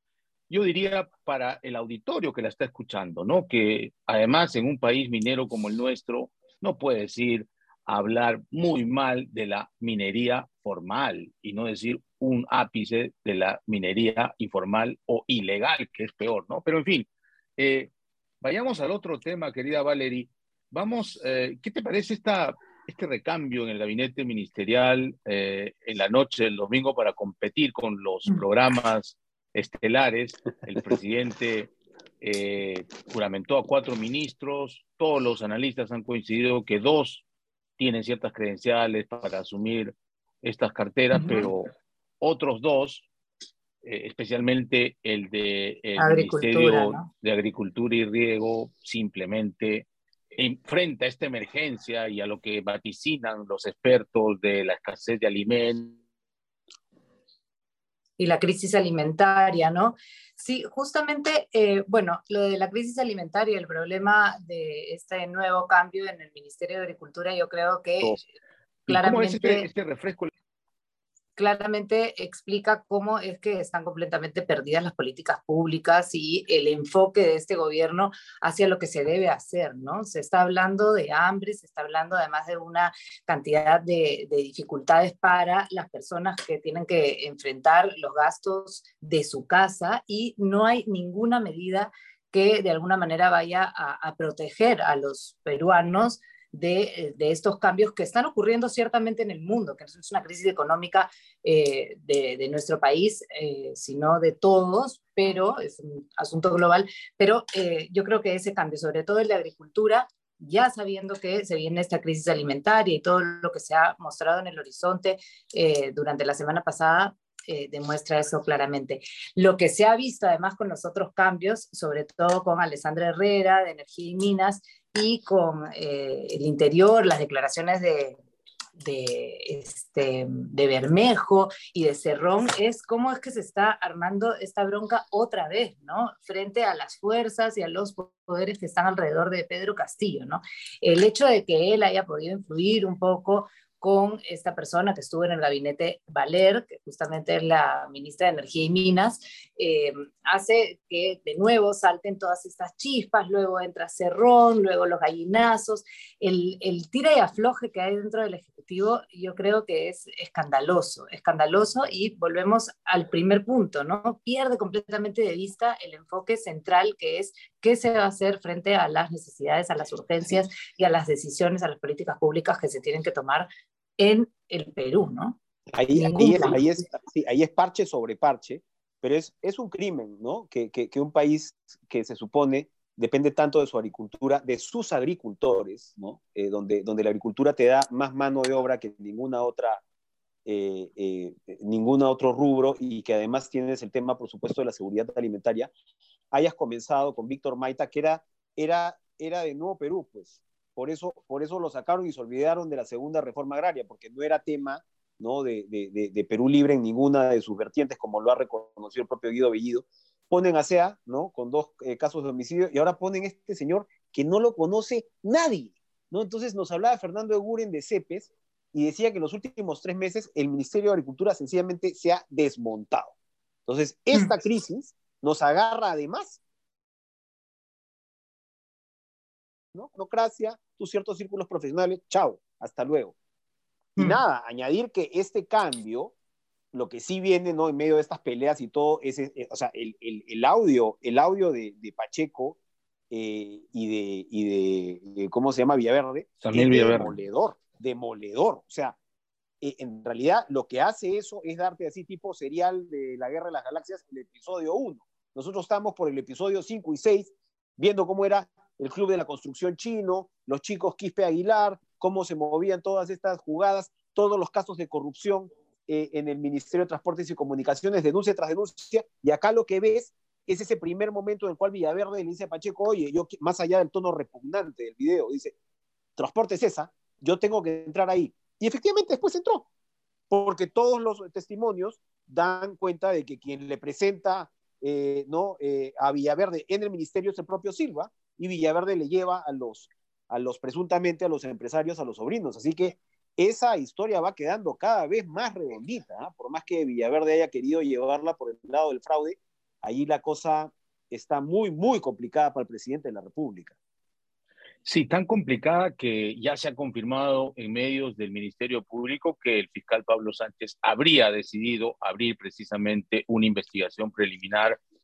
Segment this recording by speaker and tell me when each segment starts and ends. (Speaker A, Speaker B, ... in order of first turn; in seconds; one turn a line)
Speaker A: 0.5-37.2
Speaker A: 37.8-43.1
Speaker B: 41.1-41.5
Speaker A: 43.8-56.0
Speaker B: 46.0-47.1
Speaker B: 58.2-68.2
Speaker B: 68.9-69.7
Speaker A: 68.9-70.3
Speaker B: 71.3-128.2
Speaker B: 128.8-175.4
Speaker C: 175.7-189.8
Speaker B: 175.9-176.6
Speaker C: 190.4-195.7
Speaker C: 196.3-223.1
Speaker C: 223.7-226.4
Speaker C: 229.7-233.1
Speaker B: 233.9-234.2
Speaker C: 234.0-236.1
Speaker C: 236.7-242.6
Speaker C: 243.1-249.0
Speaker A: 246.4-247.1
Speaker C: 249.6-275.5
Speaker C: 276.2-279.6
Speaker C: 280.3-303.7
Speaker A: 304.8-314.8